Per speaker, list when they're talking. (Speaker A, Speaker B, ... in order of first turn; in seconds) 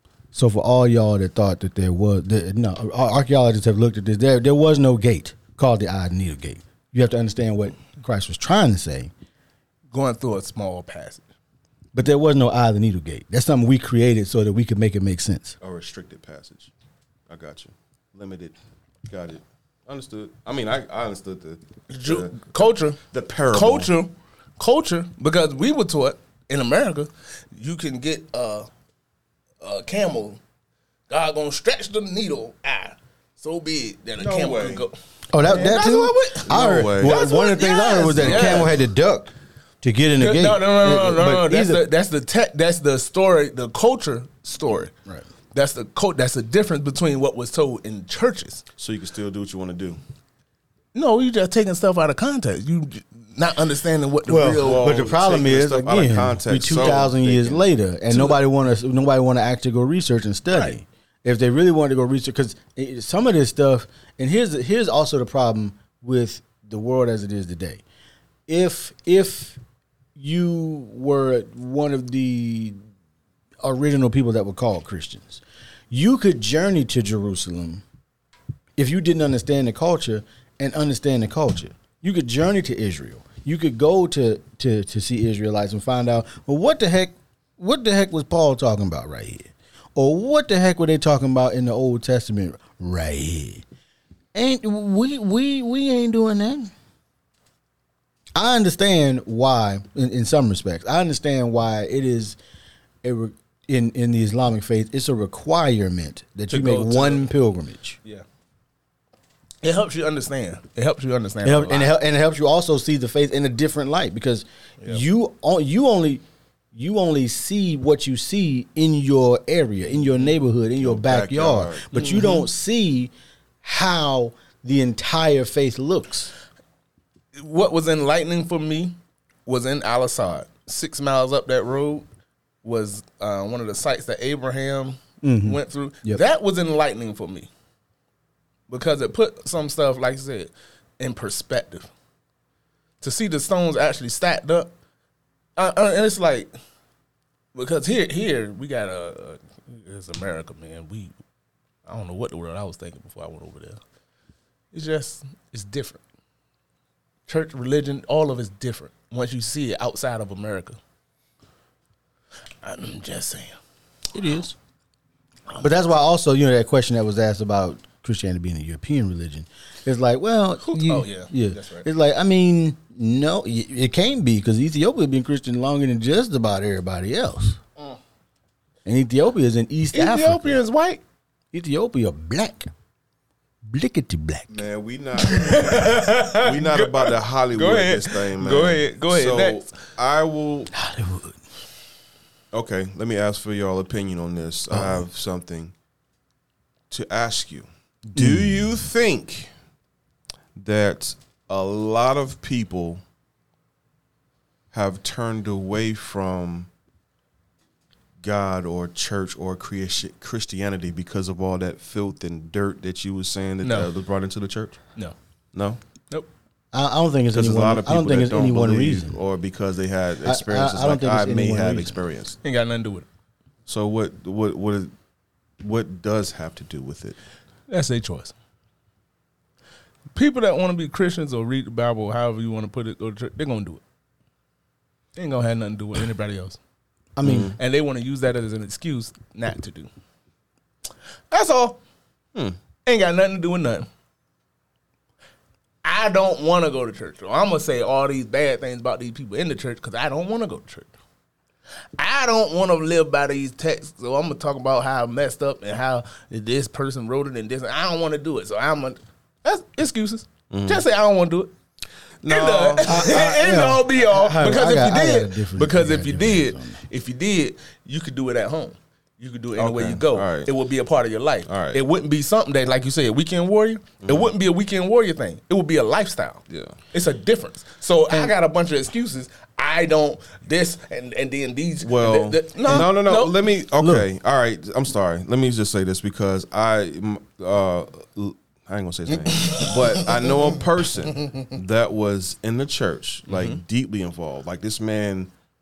Speaker A: 0.3-9.1, 11.9-15.6, 35.3-41.8, 54.3-67.8, 68.5-69.6, 70.2-72.8, 73.6-77.8, 78.8-93.7, 94.3-96.7, 98.3-102.4, 103.0-108.0, 111.4-116.2, 116.7-123.1, 123.6-126.3, 135.2-136.2, 164.1-164.6, 165.6-177.6, 178.8-180.6, 181.5-182.7, 183.7-184.5, 190.7-191.4, 194.7-195.0, 198.2-198.7, 216.7-219.2, 220.2-222.0, 237.2-237.5, 262.9-266.8, 283.8-284.1
Speaker B: 9.9-11.2, 21.9-23.0, 23.5-28.7, 29.6-30.4, 31.1-38.8, 40.2-44.9, 45.5-48.6, 50.9-55.0, 58.1-58.4, 106.5-107.3, 109.6-111.9, 121.9-122.5, 127.4-132.1, 132.6-137.5, 138.7-141.9, 143.0-144.7, 145.6-146.5, 147.6-151.1, 151.9-153.8, 154.7-156.0, 157.3-160.8, 162.6-163.6, 170.6-171.9, 179.9-181.0, 185.2-189.7, 213.6-213.9, 222.4-223.1, 227.7-228.3, 230.1-233.8, 235.2-236.6, 237.6-239.9, 241.3-241.8, 242.8-243.9, 245.8-250.9, 252.0-261.5, 262.3-283.4, 289.3-290.3, 293.3-293.6
Speaker C: 15.6-16.7, 17.3-18.6, 19.1-22.5, 23.0-23.9, 34.2-34.9, 36.5-37.2, 38.1-38.8, 48.8-50.0, 54.6-57.7, 120.8-121.9, 184.5-190.7, 192.5-195.7, 196.9-199.5, 200.6-203.0, 204.7-206.7, 208.2-214.8, 215.5-215.8, 217.3-222.4, 223.7-224.9, 225.6-227.2, 237.2-237.6, 260.5-260.8, 262.2-263.2, 269.6-270.5, 271.5-271.8, 274.0-274.3, 276.5-276.8, 281.8-295.3